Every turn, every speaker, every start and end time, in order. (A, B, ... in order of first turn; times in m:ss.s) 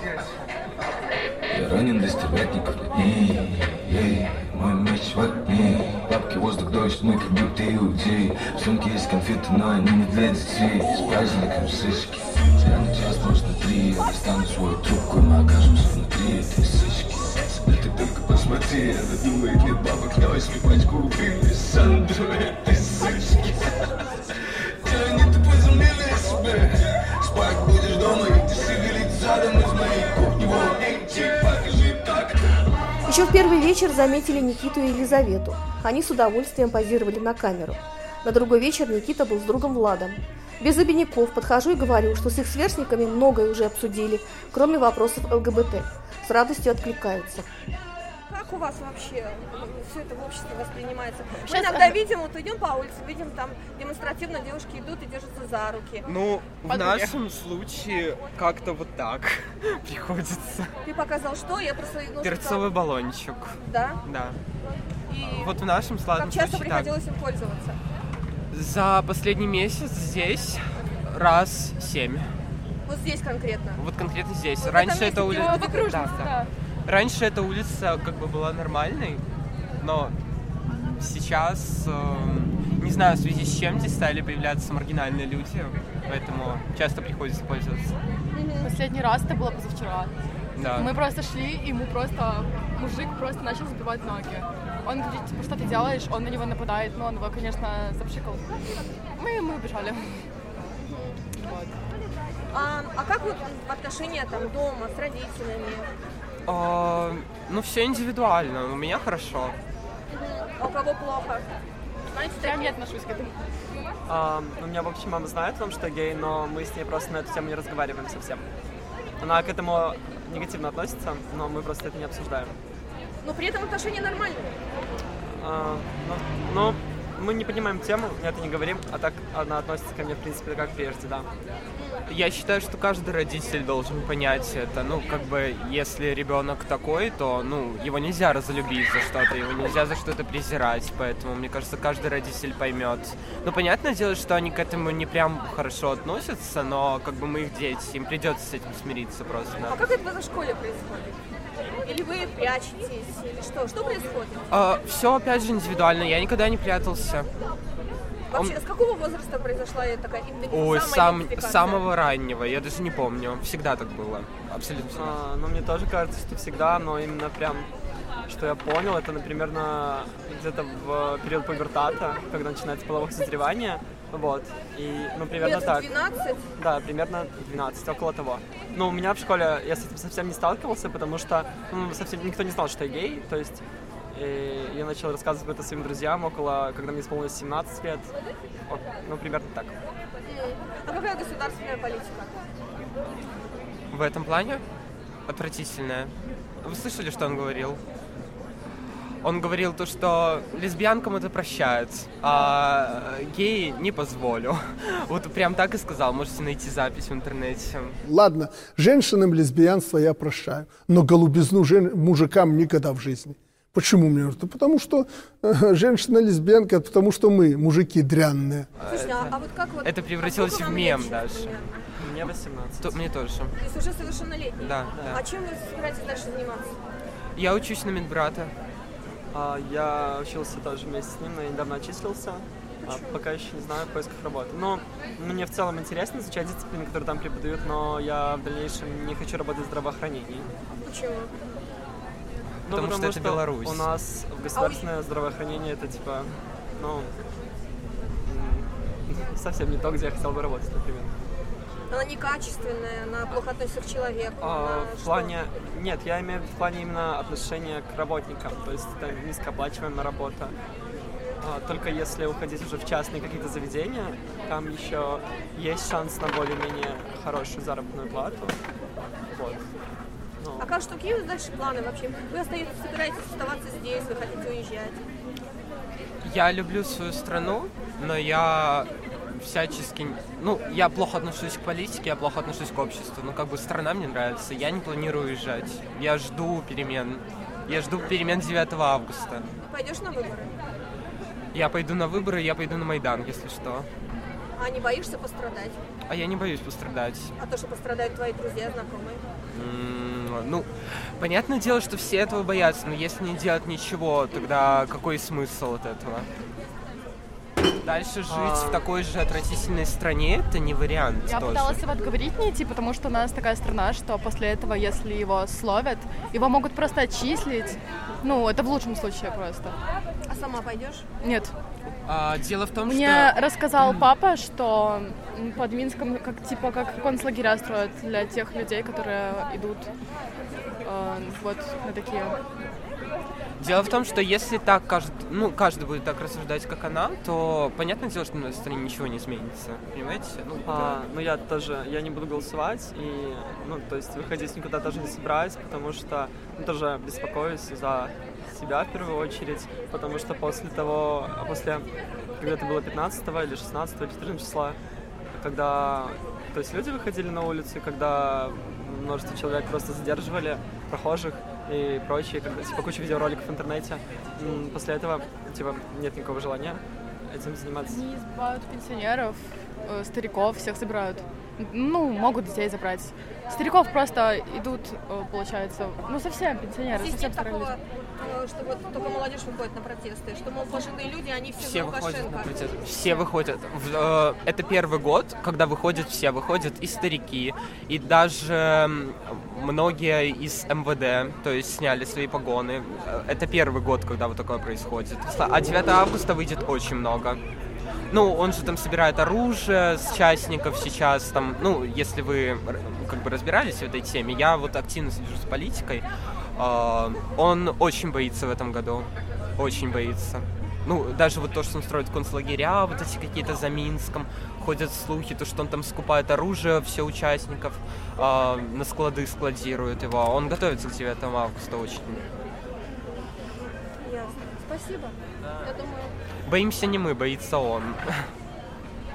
0:01.5-0:23.7 A
0:24.8-0:32.4 A
0:33.0-0:47.5 B
0:48.3-0:56.1 C
0:51.5-0:52.0 D
0:56.1-1:00.7 E
0:56.7-0:57.1 D
1:00.8-1:02.7 C
1:02.2-1:04.4 E
1:03.6-1:04.0 C
1:05.1-1:05.6 C
1:05.3-1:06.9 E
1:06.1-1:07.8 C
1:08.5-1:12.3 E
1:12.9-1:13.8 C
1:13.8-1:16.3 E
1:14.6-1:16.1 C
1:15.2-1:16.5 D
1:16.9-1:19.2 E
1:19.8-1:20.1 E
1:20.8-1:28.0 E
1:28.3-1:28.7 C
1:28.6-1:30.1 D
1:30.6-1:30.9 E
1:30.6-1:38.6 D
1:39.2-1:40.2 D
1:40.8-1:41.2 C
1:41.4-1:41.7 D
1:42.5-1:45.9 C
1:46.5-1:49.5 E
1:50.1-1:51.5 C
1:52.1-1:52.8 C
1:52.4-1:53.3 D
1:54.1-1:58.4 F
1:59.2-2:02.6 F
2:03.2-2:04.5 C
2:05.3-2:11.3 F
2:11.7-2:12.0 C
2:12.1-2:29.8 E
2:29.6-2:31.2 C
2:31.7-2:34.5 C
2:34.5-2:37.3 E
2:38.3-2:38.6 E
2:38.3-2:41.9 C
2:40.5-2:45.1 E
2:45.0-2:47.7 F
2:48.3-2:55.9 F
2:55.4-2:56.5 C
2:56.6-3:03.6 F
3:04.1-3:08.1 F
3:08.7-3:09.8 F
3:10.3-3:12.4 C
3:13.9-3:14.6 E
3:15.3-3:17.8 E
3:19.2-3:28.0 E
3:28.0-3:38.7 G
3:38.8-3:41.6 E
3:38.9-3:41.8 C
3:42.0-3:43.0 F
3:42.8-3:43.6 E
3:43.6-3:46.8 C
3:44.6-3:45.2 E
3:47.4-3:48.5 E
3:49.3-4:00.5 F
3:52.8-3:53.2 C
4:00.8-4:01.3 C
4:02.7-4:03.9 E
4:02.7-4:07.1 F
4:04.5-4:04.9 C
4:08.2-4:11.1 F
4:11.9-4:15.4 C
4:14.4-4:20.6 F
4:21.4-4:28.6 F
4:29.3-4:29.6 F
4:30.4-4:30.7 F
4:30.6-4:35.0 C
4:36.2-4:49.5 E
4:49.6-4:50.5 C
4:51.5-4:53.9 E
4:54.6-4:55.8 C
4:56.1-4:57.3 E
4:57.4-4:59.2 C
4:59.5-5:06.3 E
5:07.8-5:11.8 E
5:08.3-5:08.8 F
5:11.3-5:19.8 D
5:20.3-5:21.1 C
5:21.2-5:21.5 D
5:22.1-5:23.4 E
5:22.9-5:29.9 D
5:30.8-5:32.4 D
5:33.6-5:40.9 E
5:40.7-5:51.9 F
5:52.4-5:54.8 F
5:55.3-6:08.0 F
6:07.9-6:17.8 D
6:16.9-6:23.2 C
6:21.6-6:37.4 E
6:38.1-6:46.0 E
6:46.6-7:02.3 E
7:04.0-7:06.1 C
7:06.5-7:08.3 E